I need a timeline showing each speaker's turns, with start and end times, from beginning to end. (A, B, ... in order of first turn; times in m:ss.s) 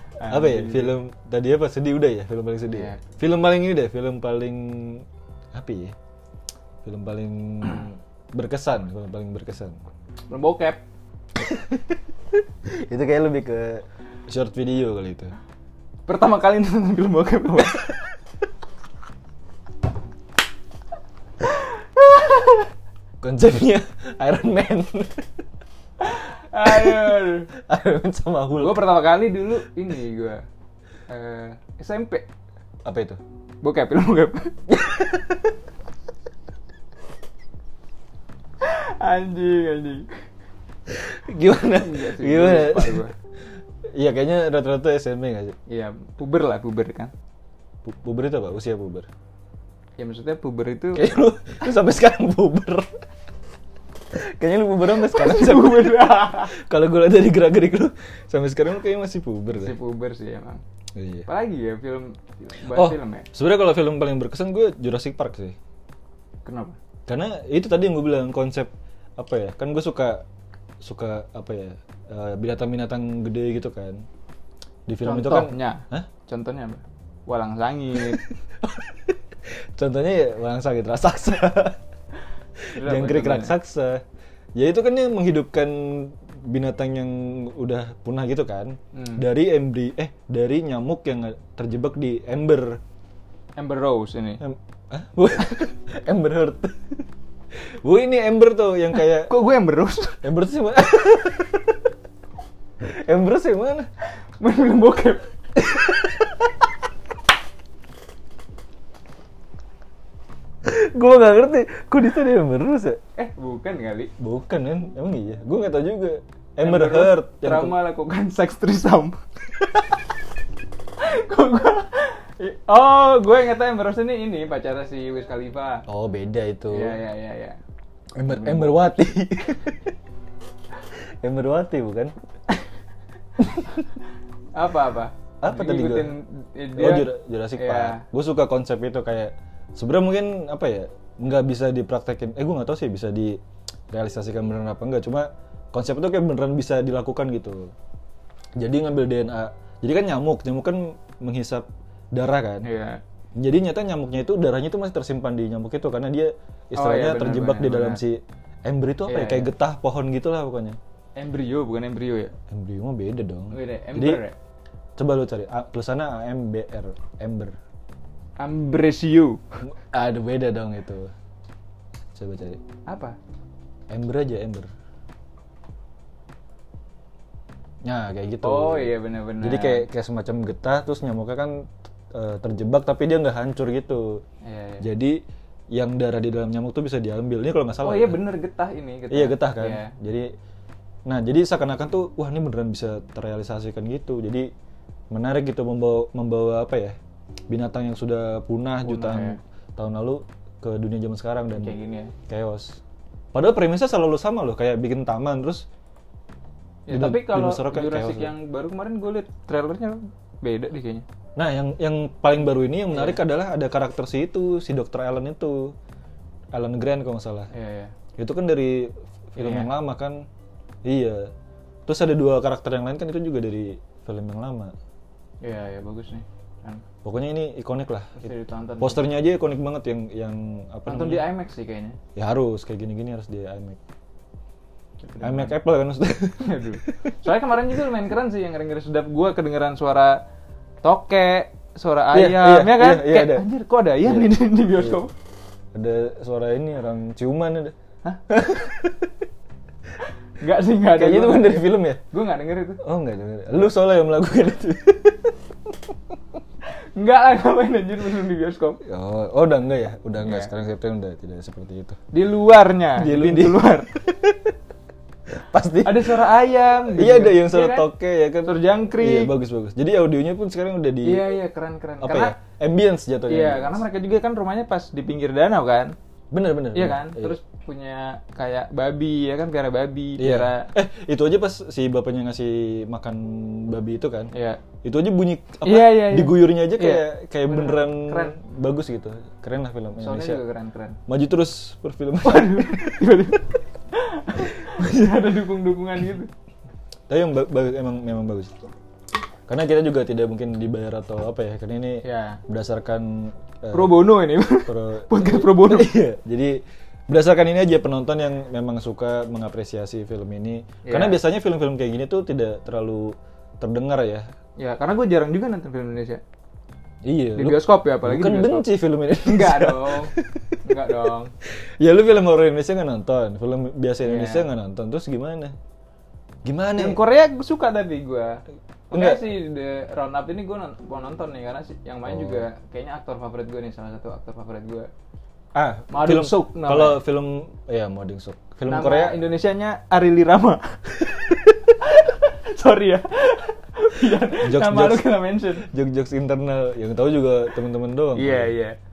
0:00.2-0:00.9 A
0:00.3-0:05.9 B
0:02.7-0:03.0 A
0:06.8-0:09.8 B
0:10.3-0:10.8 A
0:11.4-0:12.0 B
0:12.7-0:15.3 B
0:16.1-0:18.0 A
0:22.0-0:22.6 A
0:23.2-0:25.3 B
0:26.0-0:27.5 A
0:26.6-0:29.0 B
0:28.6-0:30.4 A
0:31.1-0:32.2 A
0:32.8-0:33.2 B
0:33.6-0:34.6 A
0:34.7-0:35.5 B
0:38.6-0:40.1 A
0:40.9-0:43.1 B
0:41.7-0:43.1 A
0:43.9-0:45.6 B
0:45.7-0:47.1 A
0:47.8-0:49.1 B
0:50.0-0:51.1 A
0:50.9-0:52.9 B
0:54.1-0:59.8 B
0:54.9-0:56.5 A
0:59.6-1:00.6 A
1:00.9-1:01.3 B
1:01.2-1:03.3 A
1:02.7-1:05.6 B
1:06.4-1:06.8 A
1:07.1-1:10.2 B
1:10.8-1:14.0 B
1:14.9-1:16.1 B
1:15.0-1:18.3 A
1:17.9-1:21.8 B
1:22.6-1:24.0 B
1:22.7-1:23.5 A
1:24.6-1:32.8 B
1:28.9-1:29.2 A
1:33.6-1:34.4 A
1:34.4-1:37.0 B
1:37.5-1:39.3 B
1:39.0-1:40.2 A
1:40.2-1:41.9 B
1:42.8-1:43.9 B
1:44.4-1:45.2 A
1:45.6-1:46.6 B
1:50.6-1:53.0 B
1:53.2-1:54.1 A
1:54.2-1:57.8 B
1:56.6-1:59.2 A
2:01.0-2:05.8 A
2:05.9-2:07.0 B
2:06.7-2:07.6 A
2:08.1-2:09.9 B
2:08.2-2:08.8 A
2:10.8-2:12.1 B
2:13.4-2:13.8 A
2:14.5-2:18.0 A
2:15.4-2:16.1 B
2:16.7-2:27.7 B
2:28.6-2:32.7 B
2:32.6-2:33.0 A
2:33.4-2:40.8 B
2:36.7-2:38.0 A
2:39.1-2:39.5 A
2:41.2-2:42.3 A
2:42.5-2:44.2 B
2:43.5-2:44.4 A
2:45.0-2:47.6 B
2:48.4-2:49.4 A
2:49.6-2:51.1 B
2:52.1-2:52.6 B
2:52.9-2:53.2 A
2:53.9-2:54.7 B
2:57.8-3:04.2 B
2:58.4-2:59.8 A
3:04.4-3:04.8 A
3:04.8-3:08.2 B
3:07.8-3:09.9 A
3:09.1-3:10.3 B
3:11.0-3:14.5 B
3:15.1-3:17.0 B
3:17.5-3:21.7 B
3:18.8-3:19.4 A
3:21.6-3:22.1 A
3:22.3-3:22.8 B
3:23.3-3:25.6 B
3:26.9-3:31.0 A
3:26.9-3:28.3 B
3:31.4-3:35.8 B
3:32.9-3:33.2 A
3:36.5-3:37.5 B
3:37.5-3:37.9 A
3:38.2-3:40.3 B
3:39.4-3:39.7 A
3:40.8-3:41.3 B
3:41.8-3:44.7 B
3:45.4-3:46.8 A
3:47.0-3:51.2 B
3:48.2-3:49.0 A
3:50.9-3:52.0 A
3:52.1-3:53.8 B
3:55.0-3:55.6 A
3:55.2-3:57.1 B
3:56.4-4:00.2 A
4:00.8-4:05.1 A
4:02.1-4:03.5 B
4:04.0-4:05.0 B
4:05.7-4:07.7 B
4:08.3-4:09.1 B
4:10.4-4:12.8 A
4:10.9-4:12.0 B
4:12.8-4:15.8 B
4:17.0-4:18.8 A
4:18.8-4:22.0 B
4:20.2-4:20.5 A
4:22.1-4:23.9 A
4:22.9-4:24.5 B
4:25.3-4:26.2 B
4:25.8-4:27.9 A
4:26.9-4:31.3 B
4:28.4-4:29.3 A
4:31.0-4:32.3 A
4:32.0-4:33.8 B
4:33.3-4:36.0 A
4:36.3-4:37.4 B
4:36.7-4:40.7 A
4:40.2-4:44.3 B
4:44.3-4:44.6 A
4:44.8-4:50.4 B
4:45.6-4:48.4 A
4:50.0-4:51.0 A
4:51.1-4:53.4 B
4:52.2-4:56.3 A
4:54.6-4:54.9 B
4:57.1-4:58.6 B
4:59.5-5:14.2 B
5:02.0-5:02.4 A
5:03.7-5:05.9 A
5:10.8-5:11.2 A
5:14.6-5:16.2 A
5:17.0-5:20.6 B
5:17.3-5:20.1 A
5:20.6-5:21.3 A
5:21.4-5:25.5 B
5:24.0-5:24.5 A
5:26.4-5:27.0 B
5:26.8-5:34.9 A
5:28.9-5:29.2 B
5:32.0-5:32.4 B
5:35.5-5:39.2 B
5:35.9-5:37.0 A
5:38.7-5:45.7 A
5:44.2-5:48.5 B
5:48.1-5:48.8 A